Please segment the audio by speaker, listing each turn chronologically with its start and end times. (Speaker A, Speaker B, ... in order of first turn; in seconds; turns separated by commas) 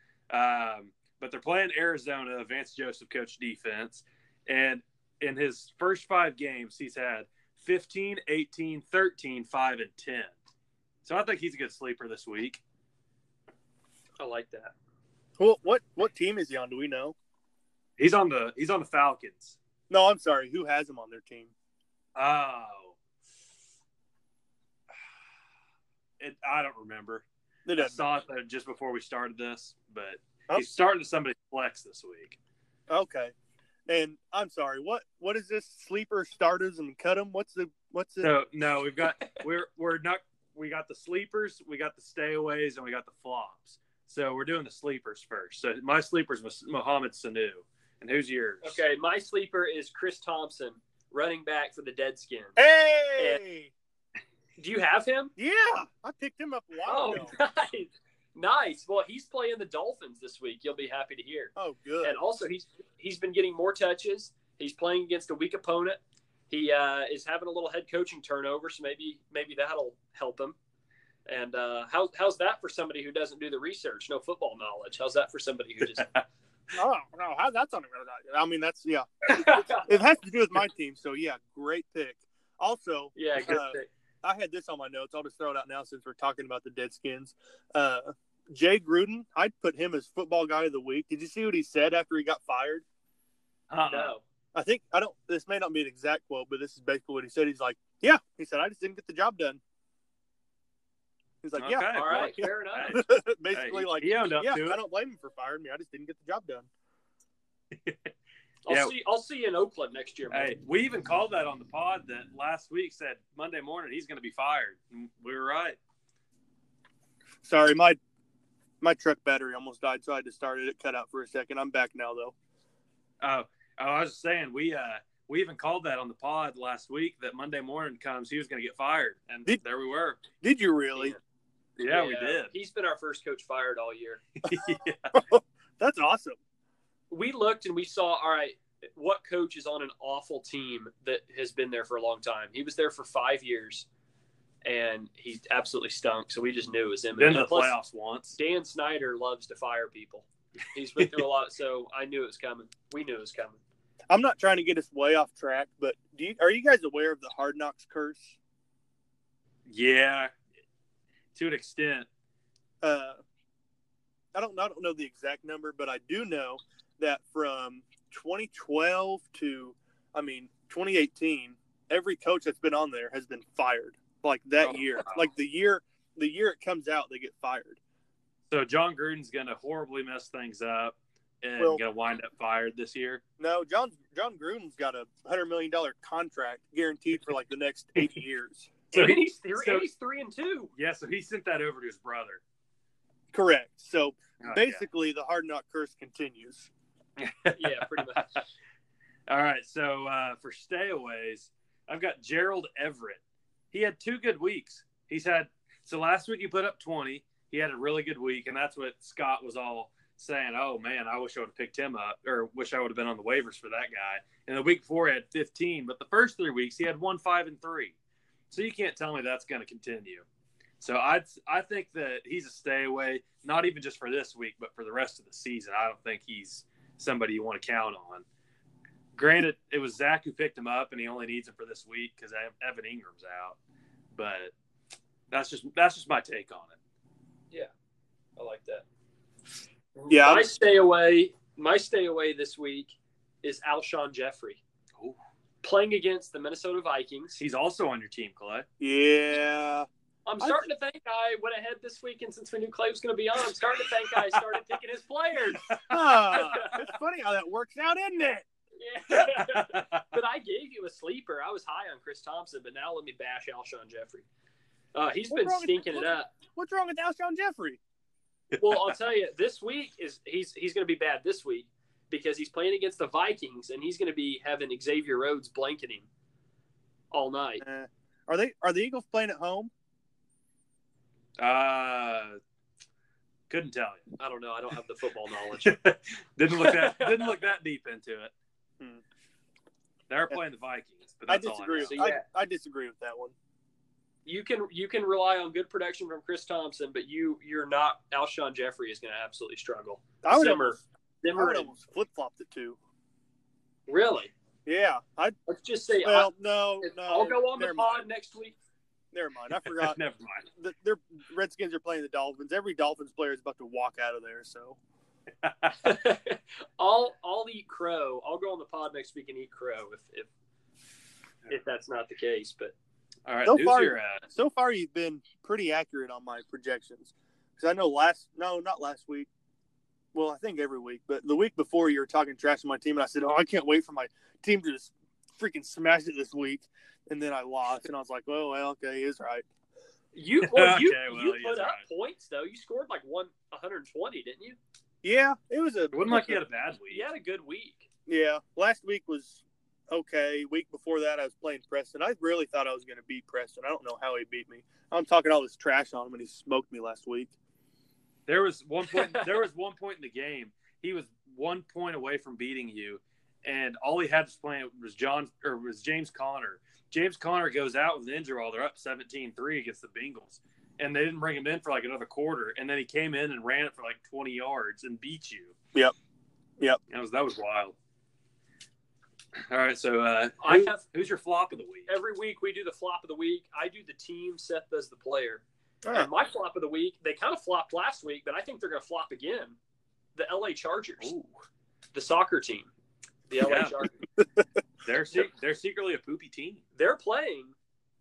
Speaker A: 0.3-10.3, Speaker A: 11.1-12.6, Speaker B: 14.2-14.7, Speaker C: 15.4-17.1, Speaker A: 18.0-19.6, Speaker C: 19.9-21.5, Speaker A: 22.1-22.9, Speaker A: 26.2-27.2, Speaker C: 27.6-28.0, Speaker A: 27.8-32.4, Speaker C: 32.9-33.3, Speaker C: 33.9-38.3, Speaker A: 38.2-48.8, Speaker B: 48.6-52.6, Speaker C: 52.6-53.7, Speaker B: 54.6-55.3, Speaker C: 55.4-57.3, Speaker B: 56.9-70.5, Speaker C: 61.5-62.2, Speaker B: 71.3-76.1, Speaker A: 76.0-76.2, Speaker C: 76.7-92.8, Speaker B: 79.3-79.9, Speaker B: 83.1-83.9, Speaker A: 93.7-94.1, Speaker B: 93.9-94.2, Speaker C: 94.5-99.6, Speaker C: 101.4-106.7, Speaker A: 101.6-104.8, Speaker B: 101.9-103.0, Speaker A: 107.8-108.1, Speaker B: 108.7-110.5, Speaker A: 108.7-108.9, Speaker A: 110.3-115.8, Speaker C: 117.4-118.0, Speaker C: 118.8-122.3, Speaker A: 123.2-130.2, Speaker C: 130.4-131.2, Speaker A: 131.8-132.5, Speaker B: 131.8-134.2, Speaker A: 134.4-135.2, Speaker C: 134.5-136.4, Speaker B: 137.1-143.9, Speaker B: 144.6-147.8, Speaker A: 147.2-148.4, Speaker B: 148.3-153.6, Speaker C: 154.1-158.4, Speaker A: 159.7-160.3, Speaker A: 161.3-162.1, Speaker C: 162.8-163.2, Speaker C: 164.3-177.8, Speaker A: 174.6-175.3, Speaker A: 178.5-183.2, Speaker C: 183.4-188.9, Speaker B: 188.9-190.7, Speaker A: 188.9-189.9, Speaker A: 190.8-192.4, Speaker C: 193.3-196.7, Speaker A: 194.4-194.8, Speaker A: 197.2-198.4, Speaker B: 197.5-198.3, Speaker A: 199.3-203.2, Speaker A: 203.7-217.9, Speaker A: 218.5-220.2, Speaker A: 220.8-228.2, Speaker A: 229.1-233.6, Speaker A: 234.1-234.5, Speaker A: 235.3-236.8, Speaker B: 238.4-238.8, Speaker B: 239.9-244.6, Speaker C: 240.1-240.5, Speaker B: 245.6-247.4, Speaker A: 247.4-248.7, Speaker C: 248.8-249.9, Speaker B: 250.3-256.8, Speaker C: 250.4-250.7, Speaker A: 255.6-255.9, Speaker C: 255.9-258.4, Speaker B: 258.8-264.3, Speaker A: 259.2-260.0, Speaker B: 264.9-266.3, Speaker C: 265.3-267.8, Speaker A: 268.5-268.9, Speaker B: 268.6-276.1, Speaker B: 277.1-277.6, Speaker C: 277.6-279.7, Speaker A: 281.4-282.4, Speaker A: 283.5-284.2, Speaker B: 284.2-285.8, Speaker A: 285.6-288.3, Speaker B: 286.5-287.4, Speaker A: 290.1-292.1, Speaker C: 291.3-293.3, Speaker B: 291.9-292.2, Speaker B: 294.3-301.7, Speaker C: 300.2-300.8, Speaker C: 301.3-302.8, Speaker B: 303.9-304.3, Speaker C: 304.7-305.4, Speaker B: 305.5-308.6, Speaker C: 306.0-308.0, Speaker C: 309.1-310.0, Speaker A: 309.6-310.4, Speaker C: 310.6-314.8, Speaker A: 315.4-315.9, Speaker B: 315.8-320.3, Speaker B: 321.5-322.7, Speaker A: 323.3-324.2, Speaker C: 323.4-329.3, Speaker C: 330.1-339.4, Speaker B: 340.1-344.6, Speaker A: 340.4-341.8, Speaker C: 345.0-346.4, Speaker A: 345.9-347.1, Speaker B: 346.9-347.9, Speaker C: 348.1-357.3, Speaker A: 358.3-375.6, Speaker B: 358.9-359.3, Speaker A: 376.9-377.7, Speaker A: 379.4-381.9, Speaker B: 380.4-380.8, Speaker B: 381.9-389.6, Speaker C: 385.8-386.1, Speaker B: 390.1-391.1, Speaker A: 391.0-391.3, Speaker B: 391.9-392.7, Speaker B: 393.3-394.1, Speaker A: 393.4-393.9, Speaker A: 394.8-396.6, Speaker B: 396.8-397.6